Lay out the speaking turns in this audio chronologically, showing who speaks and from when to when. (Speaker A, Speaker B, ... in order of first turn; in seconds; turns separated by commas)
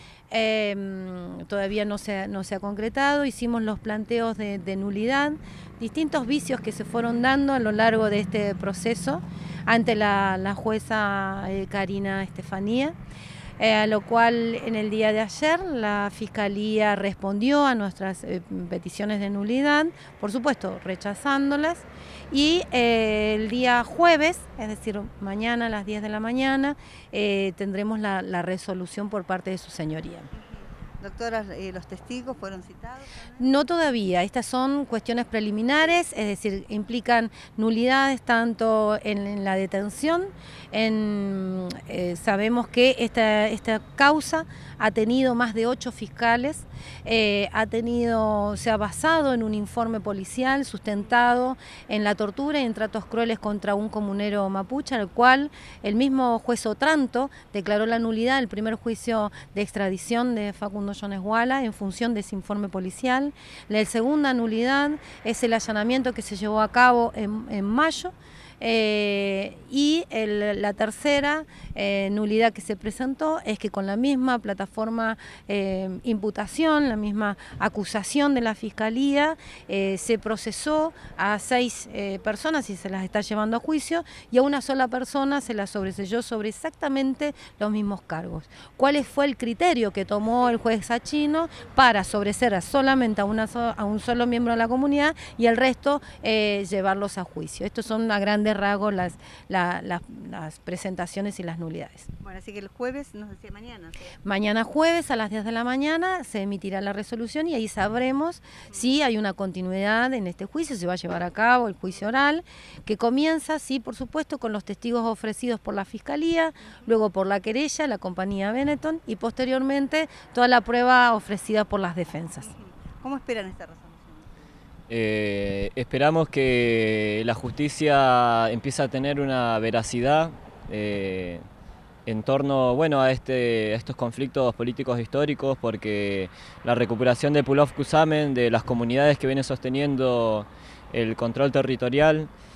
Speaker A: 0.3-12.9, Speaker A: 13.6-30.3, Speaker B: 30.3-33.4, Speaker A: 33.4-102.1, Speaker B: 102.2-104.1, Speaker A: 104.2-122.5, Speaker B: 122.4-124.5, Speaker C: 124.9-131.4, Speaker C: 132.1-142.3